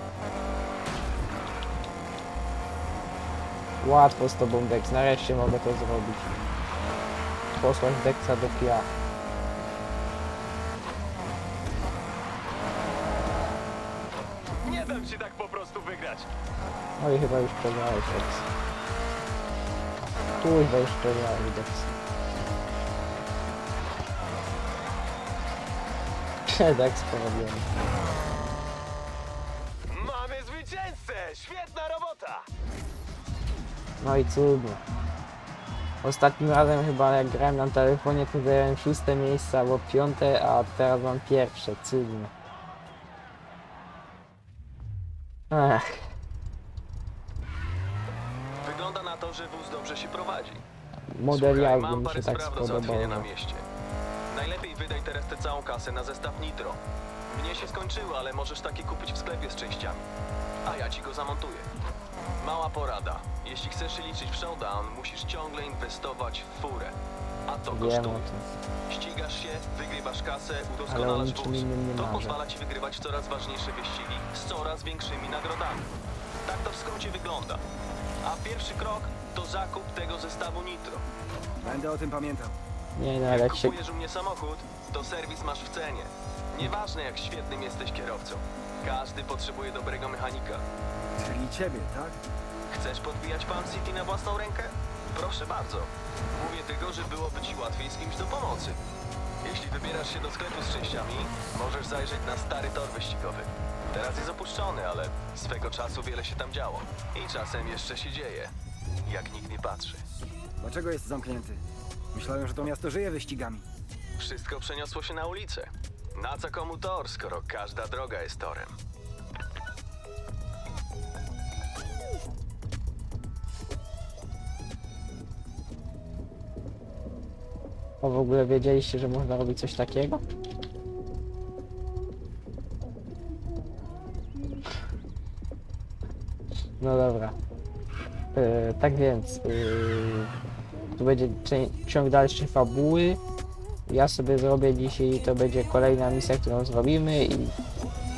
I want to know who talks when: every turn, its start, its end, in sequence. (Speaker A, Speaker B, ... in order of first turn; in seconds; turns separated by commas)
Speaker A: 3.8-6.3, Speaker A: 7.6-8.9, Speaker B: 14.6-16.3, Speaker A: 17.0-18.4, Speaker A: 20.4-21.9, Speaker A: 26.5-27.6, Speaker B: 29.9-32.5, Speaker A: 34.0-34.8, Speaker A: 36.0-42.3, Speaker A: 45.5-46.1, Speaker B: 48.6-50.6, Speaker A: 51.1-53.3, Speaker B: 51.3-53.6, Speaker B: 54.3-60.0, Speaker B: 60.6-61.7, Speaker B: 62.4-66.9, Speaker B: 67.5-68.3, Speaker A: 67.7-68.5, Speaker B: 68.9-75.9, Speaker A: 70.9-72.4, Speaker B: 76.4-77.6, Speaker B: 78.2-81.0, Speaker C: 81.6-82.5, Speaker A: 83.0-83.8, Speaker B: 83.2-90.6, Speaker C: 91.2-92.2, Speaker B: 92.7-98.8, Speaker B: 99.4-108.5, Speaker B: 109.0-110.0, Speaker C: 110.6-111.6, Speaker C: 112.1-113.7, Speaker B: 114.2-118.8, Speaker A: 128.0-130.2, Speaker A: 136.8-137.4, Speaker A: 138.3-140.3, Speaker A: 140.9-143.2, Speaker A: 143.9-147.5